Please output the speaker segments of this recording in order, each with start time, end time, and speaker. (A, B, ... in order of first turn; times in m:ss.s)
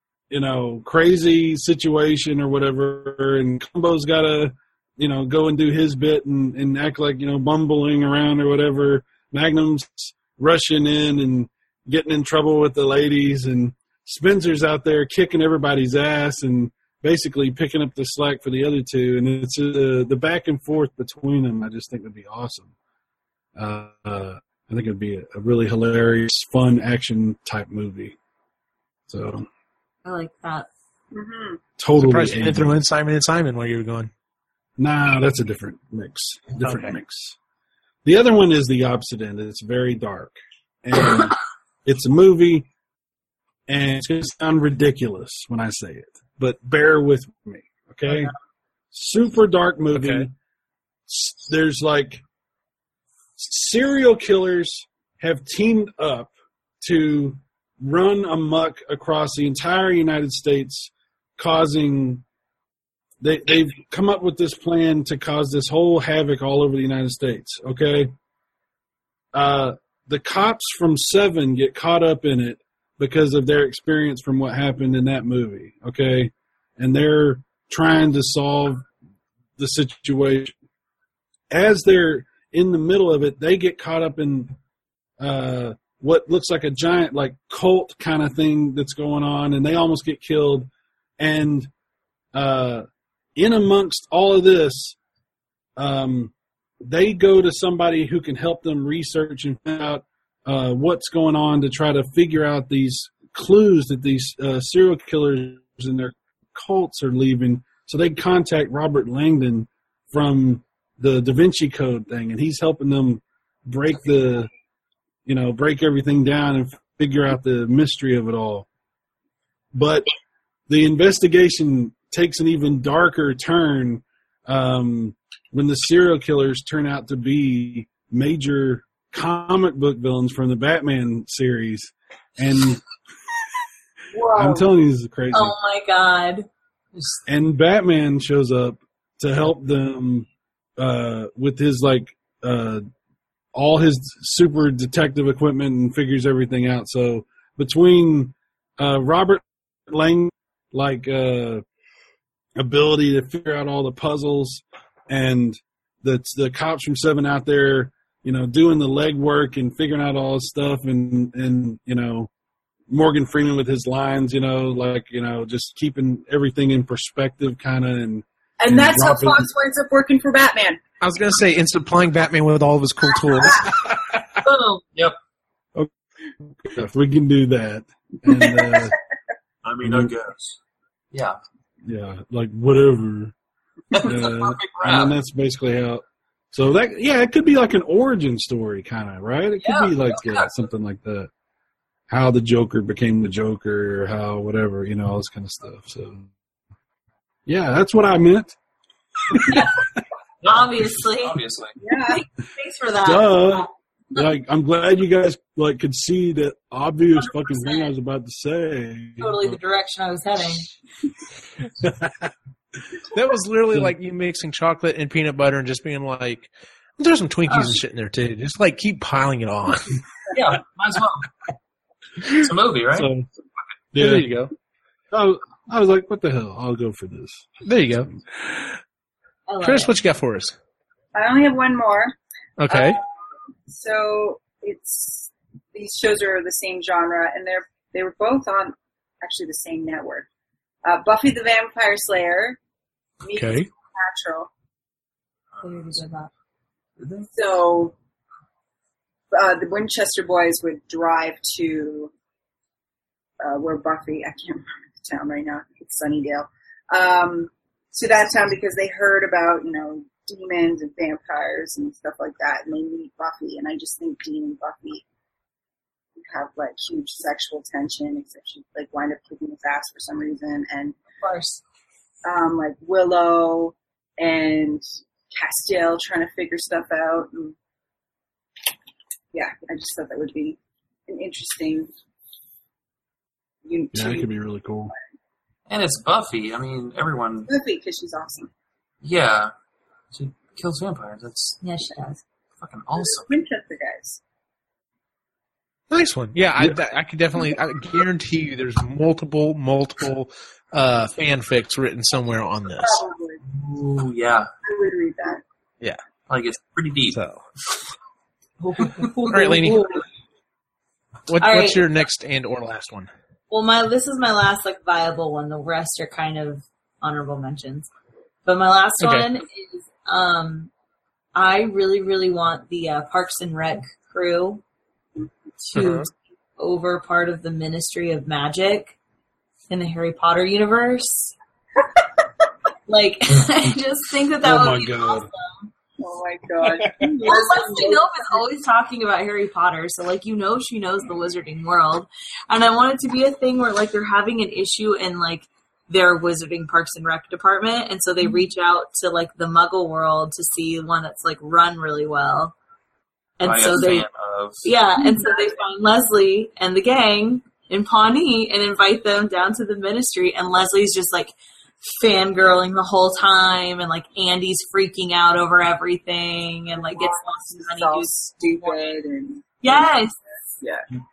0:00.3-0:22.7 A
0:23.6-0:28.2 A
0:29.1-0:29.5 A
0:30.0-0:30.7 B
0:31.1-0:31.6 C
0:31.8-0:32.8 A
0:32.0-0:34.1 D
0:34.8-0:37.4 A
0:36.6-0:37.0 D
0:38.0-0:42.7 A
0:43.7-0:48.3 A
0:48.9-0:50.3 A
0:49.9-0:50.3 D
0:51.1-0:52.2 A
0:53.4-1:02.2 A
1:03.2-1:08.1 A
1:09.3-1:18.9 A
1:19.6-1:20.5 A
1:21.5-1:24.5 A
1:25.2-1:31.7 A
1:32.3-1:35.0 A
1:35.8-1:54.5 A
1:55.3-1:58.7 A
1:59.7-2:00.1 A
2:00.7-2:12.8 A
2:14.1-2:14.7 C
2:14.3-2:15.6 A
2:15.3-2:16.5 B
2:17.3-2:22.8 A
2:23.5-2:31.6 A
2:32.6-2:42.3 A
2:42.9-2:49.5 A
2:48.6-2:50.8 C
2:51.0-2:53.7 D
2:54.4-2:54.8 B
2:56.6-2:59.0 A
2:58.3-2:58.9 C
2:59.6-3:00.6 E
2:59.8-3:00.1 A
3:01.1-3:01.4 E
3:01.8-3:03.3 A
3:03.9-3:05.1 E
3:04.0-3:11.3 A
3:09.6-3:10.5 E
3:12.1-3:16.3 A
3:17.5-3:18.6 A
3:19.3-3:20.0 A
3:20.4-3:21.8 E
3:20.4-3:21.4 B
3:21.8-3:22.2 C
3:22.0-3:24.2 B
3:23.0-3:29.6 A
3:27.2-3:27.9 B
3:29.2-3:30.7 B
3:31.8-3:32.3 A
3:33.1-3:40.0 D
3:37.5-3:37.7 B
3:40.3-3:41.3 E
3:42.3-3:43.1 E
3:42.9-3:43.3 A
3:43.9-3:44.4 A
3:44.0-3:44.5 D
3:45.1-3:47.5 A
3:47.6-3:48.1 D
3:49.5-3:49.9 B
3:49.6-3:50.6 D
3:51.1-3:52.1 C
3:52.6-3:53.0 D
3:52.7-3:53.0 C
3:53.7-4:00.3 C
4:00.8-4:02.6 C
4:03.2-4:04.5 C
4:03.3-4:03.7 D
4:05.6-4:06.3 B
4:07.0-4:07.3 E
4:07.3-4:08.0 C
4:09.3-4:12.1 C
4:13.4-4:25.0 C
4:26.2-4:31.0 C
4:31.2-4:31.6 B
4:32.2-4:37.6 C
4:39.3-4:41.9 C
4:43.7-4:44.3 C
4:43.9-4:44.9 A
4:45.7-4:47.5 E
4:47.5-4:48.5 C
4:49.0-4:49.5 E
4:50.1-4:51.6 E
4:51.6-4:52.2 B
4:52.6-4:53.3 E
4:53.0-4:54.2 C
4:55.9-5:03.0 D
5:02.8-5:03.4 C
5:03.5-5:04.5 E
5:04.6-5:05.4 C
5:06.3-5:07.2 E
5:07.1-5:07.4 D
5:08.6-5:10.0 B
5:09.3-5:10.0 D
5:11.3-5:13.1 D
5:11.4-5:11.9 B
5:13.5-5:17.9 B
5:18.4-5:20.7 B
5:19.0-5:19.3 D
5:21.4-5:24.6 B
5:25.6-5:29.0 B
5:25.8-5:26.1 D
5:29.7-5:31.3 B
5:32.9-5:35.7 B
5:34.4-5:35.3 A
5:36.0-5:38.4 C
5:36.6-5:36.9 D
5:37.2-5:52.6 B
5:53.4-5:54.1 B
5:53.4-5:54.6 E
5:54.6-6:09.0 B
5:55.0-5:55.5 C
6:06.9-6:09.9 C
6:09.6-6:10.2 B
6:10.6-6:10.9 C